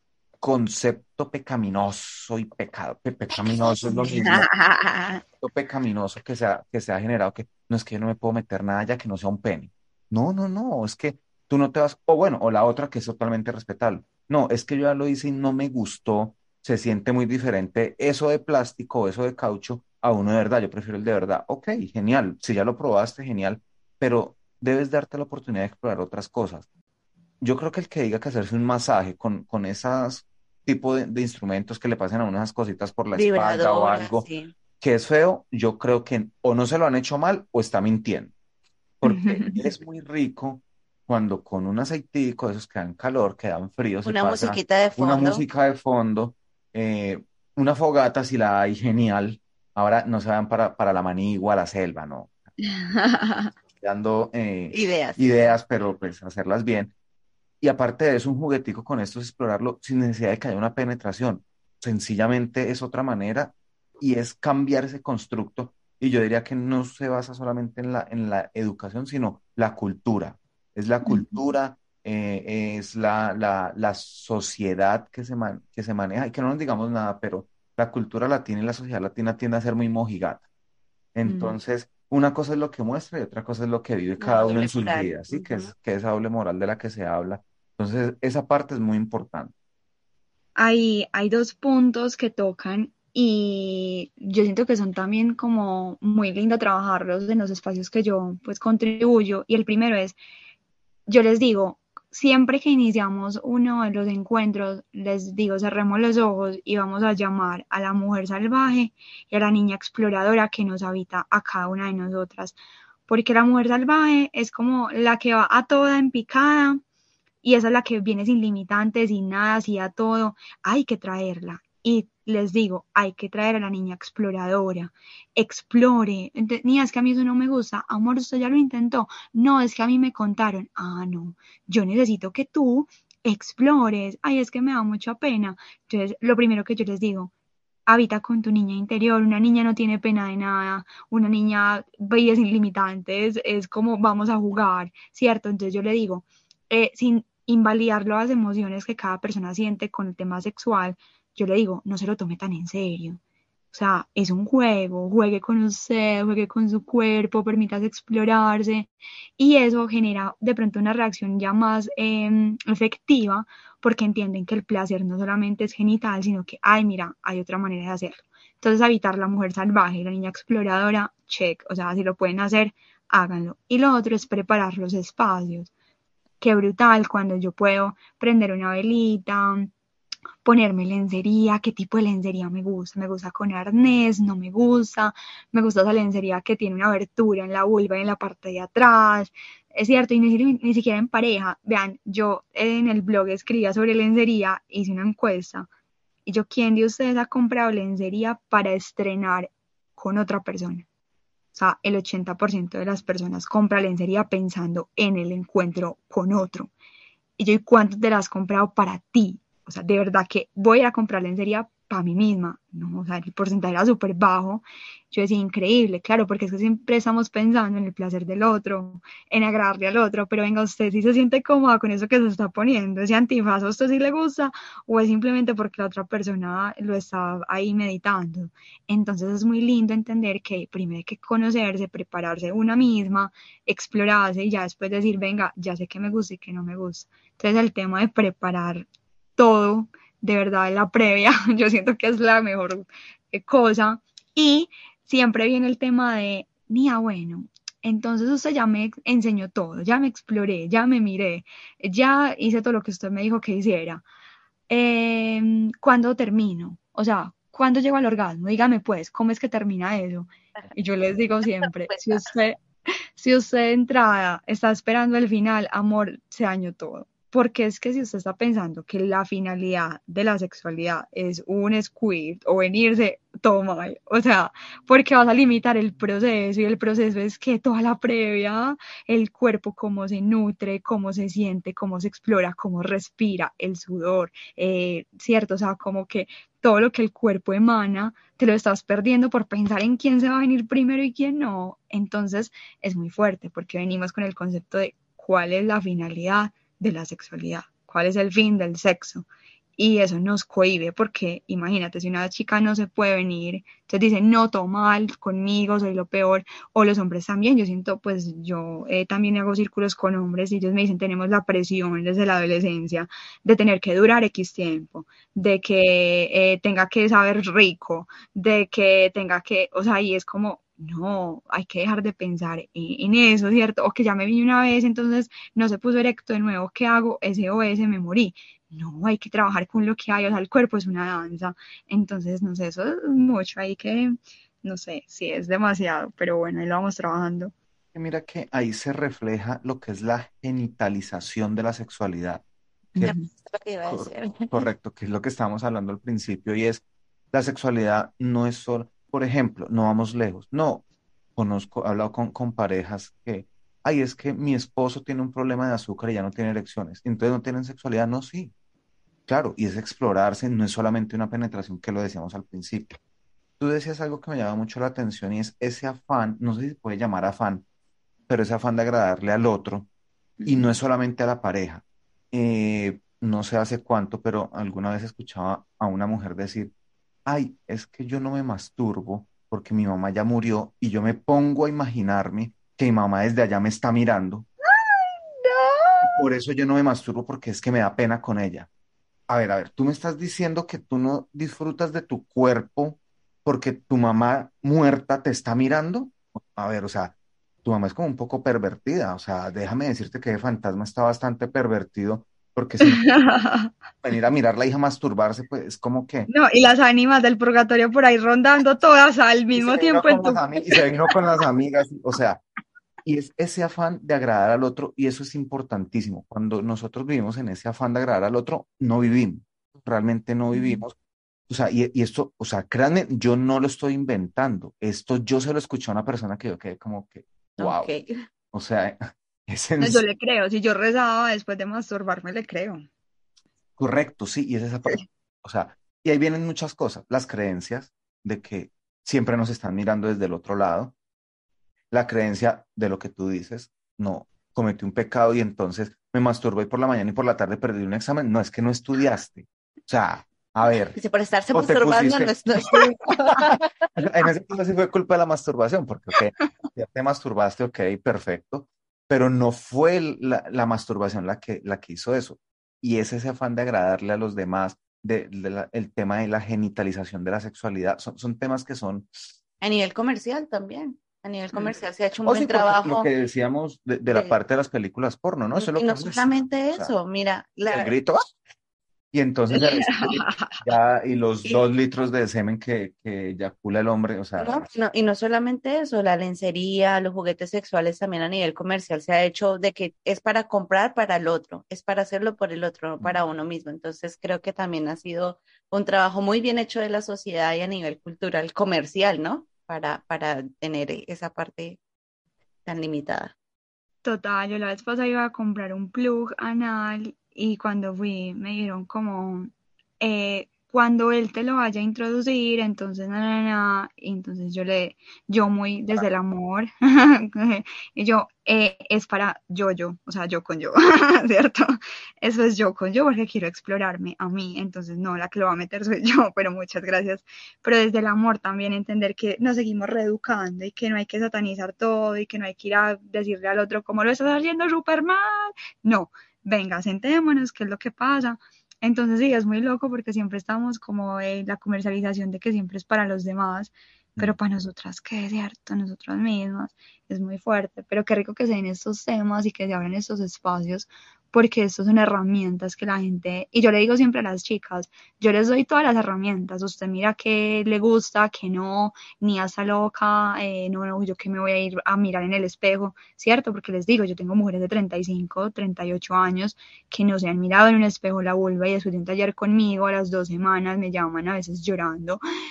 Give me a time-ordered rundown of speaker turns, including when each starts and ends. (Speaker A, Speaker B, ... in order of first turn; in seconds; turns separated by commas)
Speaker A: 0.4-4.5, Speaker B: 4.2-5.2, Speaker A: 5.4-26.7, Speaker A: 27.4-34.2, Speaker C: 33.1-34.5, Speaker A: 34.8-38.3, Speaker A: 39.0-52.3, Speaker B: 39.0-39.6, Speaker C: 44.0-45.4, Speaker B: 52.6-53.5, Speaker A: 53.7-56.9, Speaker C: 54.7-55.6, Speaker A: 57.6-80.4, Speaker B: 71.0-71.3, Speaker A: 81.1-89.5, Speaker B: 81.2-81.5, Speaker C: 84.2-85.7, Speaker B: 90.5-100.2, Speaker B: 101.1-112.5, Speaker B: 113.1-116.8, Speaker B: 117.4-137.3, Speaker B: 137.9-153.2, Speaker B: 153.7-175.7, Speaker B: 176.4-179.7, Speaker B: 180.4-195.7, Speaker B: 196.2-200.8, Speaker B: 201.5-206.7, Speaker B: 207.4-254.0, Speaker B: 254.7-262.6, Speaker C: 261.9-262.2, Speaker B: 263.2-337.5, Speaker A: 337.9-342.4, Speaker B: 342.9-343.2, Speaker C: 343.0-344.6, Speaker A: 343.9-350.8, Speaker A: 351.4-358.5, Speaker A: 359.3-362.9, Speaker A: 363.6-367.6, Speaker A: 368.3-369.9, Speaker B: 370.4-370.7, Speaker A: 370.4-376.7, Speaker A: 377.2-384.4, Speaker B: 384.6-386.1, Speaker A: 386.0-388.7, Speaker A: 389.3-403.1, Speaker B: 402.8-403.7, Speaker A: 404.0-406.3, Speaker B: 406.3-410.5, Speaker A: 409.5-412.4, Speaker A: 413.0-420.9, Speaker A: 421.5-427.9, Speaker C: 427.6-428.1, Speaker A: 428.5-430.0, Speaker B: 429.8-432.9, Speaker A: 433.8-440.9, Speaker A: 441.9-451.0, Speaker C: 450.9-453.4, Speaker A: 451.5-452.8, Speaker A: 453.3-469.2, Speaker C: 469.6-473.1, Speaker A: 472.2-476.9, Speaker C: 474.1-474.3, Speaker C: 475.6-477.9, Speaker A: 477.7-478.3, Speaker A: 479.1-484.7, Speaker B: 479.6-480.6, Speaker C: 484.4-501.8, Speaker C: 502.6-503.3, Speaker B: 504.0-572.2